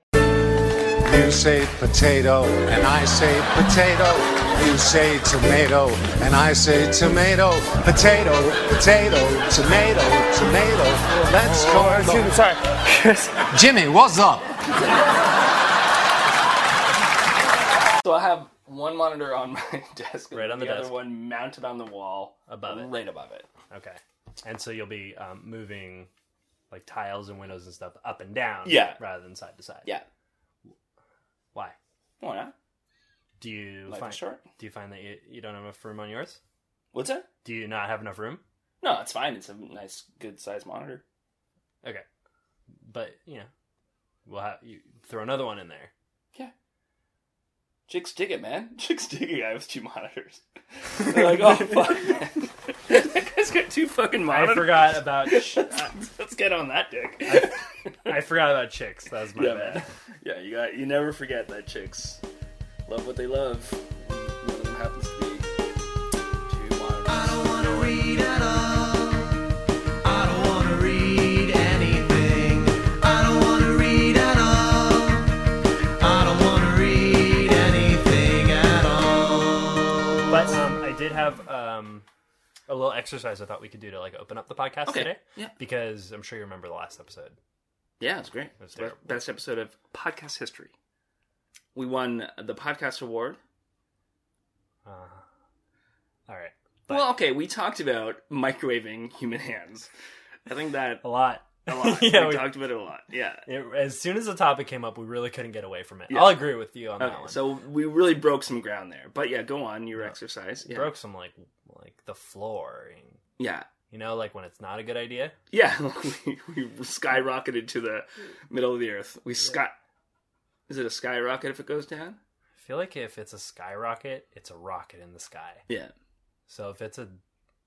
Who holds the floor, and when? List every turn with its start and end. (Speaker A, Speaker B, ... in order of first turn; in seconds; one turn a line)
Speaker A: 1.0-12.5
Speaker A: 13.4-14.5
Speaker B: 18.0-23.5
Speaker C: 20.3-20.9
Speaker C: 22.5-22.9
Speaker C: 23.7-26.1
Speaker C: 26.7-29.9
Speaker B: 28.6-29.0
Speaker B: 32.2-32.5
Speaker C: 33.4-36.4
Speaker B: 33.9-34.4
Speaker B: 36.9-37.3
Speaker C: 37.4-38.4
Speaker B: 38.8-41.0
Speaker C: 42.8-43.5
Speaker C: 44.2-45.9
Speaker B: 47.9-58.2
Speaker C: 54.2-55.9
Speaker C: 57.3-59.9
Speaker B: 59.4-62.2
Speaker B: 62.9-65.5
Speaker B: 66.5-67.4
Speaker D: 67.1-69.4
Speaker D: 70.0-75.3
Speaker D: 76.0-80.4
Speaker C: 80.3-82.0
Speaker C: 82.7-87.4
Speaker B: 84.9-85.5
Speaker B: 88.0-90.7
Speaker C: 88.6-89.1
Speaker B: 91.7-93.4
Speaker C: 94.8-95.2
Speaker C: 96.3-97.1
Speaker B: 96.9-99.9
Speaker B: 100.5-103.5
Speaker C: 101.0-102.5
Speaker C: 103.5-107.4
Speaker B: 106.1-110.9
Speaker C: 110.7-113.2
Speaker B: 113.4-113.7
Speaker C: 113.9-115.3
Speaker B: 115.5-119.7
Speaker B: 120.7-122.2
Speaker C: 122.5-125.7
Speaker C: 126.5-127.2